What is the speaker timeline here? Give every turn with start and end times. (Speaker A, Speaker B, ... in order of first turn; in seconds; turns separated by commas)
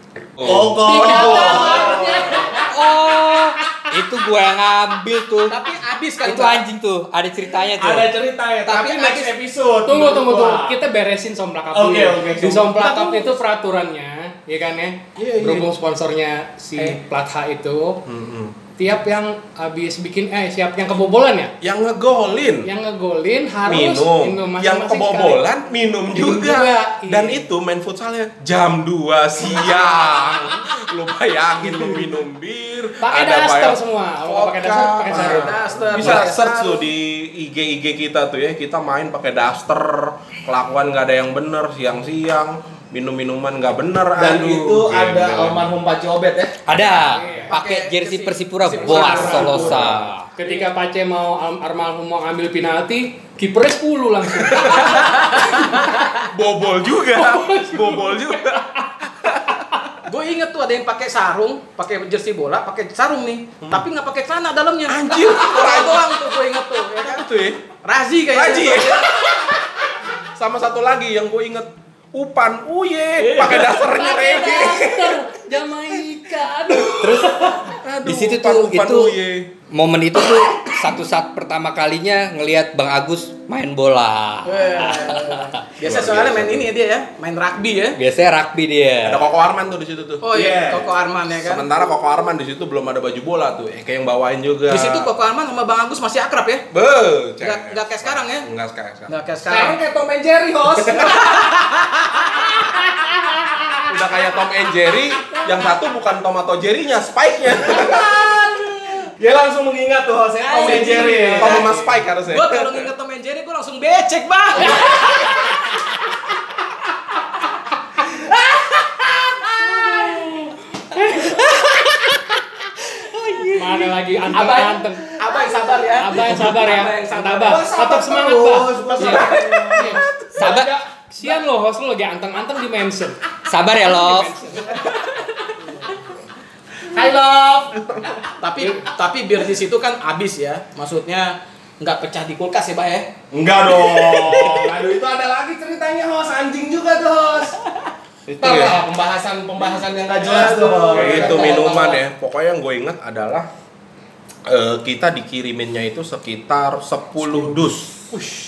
Speaker A: 0.4-1.5, Speaker B: 0.4-2.5, Speaker C: 0.8-2.8, Speaker D: 1.5-2.0, Speaker E: 2.6-5.6, Speaker D: 5.5-6.6, Speaker E: 6.2-8.1, Speaker B: 7.7-10.8, Speaker D: 8.7-9.3, Speaker C: 9.8-18.0, Speaker B: 11.7-13.3, Speaker A: 15.2-15.7, Speaker A: 18.1-18.6, Speaker C: 18.8-21.6, Speaker A: 21.6-22.7, Speaker C: 22.6-25.6, Speaker A: 23.7-45.7, Speaker C: 26.1-27.5, Speaker C: 33.0-36.3, Speaker D: 35.1-36.9, Speaker B: 44.2-46.6, Speaker E: 46.7-50.3, Speaker C: 47.0-47.5, Speaker D: 47.5-49.8, Speaker C: 48.7-55.8, Speaker A: 49.4-50.1, Speaker D: 54.6-56.1, Speaker A: 55.8-59.6, Speaker C: 57.1-58.6, Speaker D: 60.0-67.3, Speaker A: 64.9-66.3, Speaker A: 66.9-67.6, Speaker D: 67.8-69.0, Speaker A: 68.3-69.6, Speaker A: 70.3-75.2, Speaker C: 73.3-77.8, Speaker E: 77.0-79.2, Speaker A: 77.7-79.5, Speaker E: 79.7-85.7, Speaker D: 84.5-88.0, Speaker A: 85.8-86.7, Speaker E: 88.0-89.2, Speaker A: 89.0-90.2, Speaker D: 90.2-91.7, Speaker B: 90.3-90.9, Speaker A: 91.4-95.1, Speaker D: 94.7-96.7, Speaker A: 96.7-99.1, Speaker D: 97.4-98.5, Speaker D: 99.1-99.8, Speaker B: 99.5-101.3, Speaker D: 100.9-102.6, Speaker A: 103.8-108.5, Speaker B: 107.7-111.7, Speaker D: 110.5-115.3, Speaker A: 110.6-112.8, Speaker E: 121.0-123.9, Speaker C: 123.5-125.2, Speaker D: 124.3-127.6, Speaker C: 125.9-133.2, Speaker B: 127.4-131.4, Speaker A: 129.0-130.5, Speaker E: 130.3-130.7, Speaker E: 133.5-134.5, Speaker C: 133.8-135.9, Speaker D: 134.7-135.2, Speaker B: 136.9-137.8, Speaker A: 137.8-138.1, Speaker D: 138.2-143.1, Speaker B: 143.3-147.6, Speaker A: 143.9-144.6, Speaker A: 148.3-148.8, Speaker B: 148.4-152.0, Speaker D: 150.2-152.0, Speaker A: 150.9-153.5, Speaker A: 154.5-158.0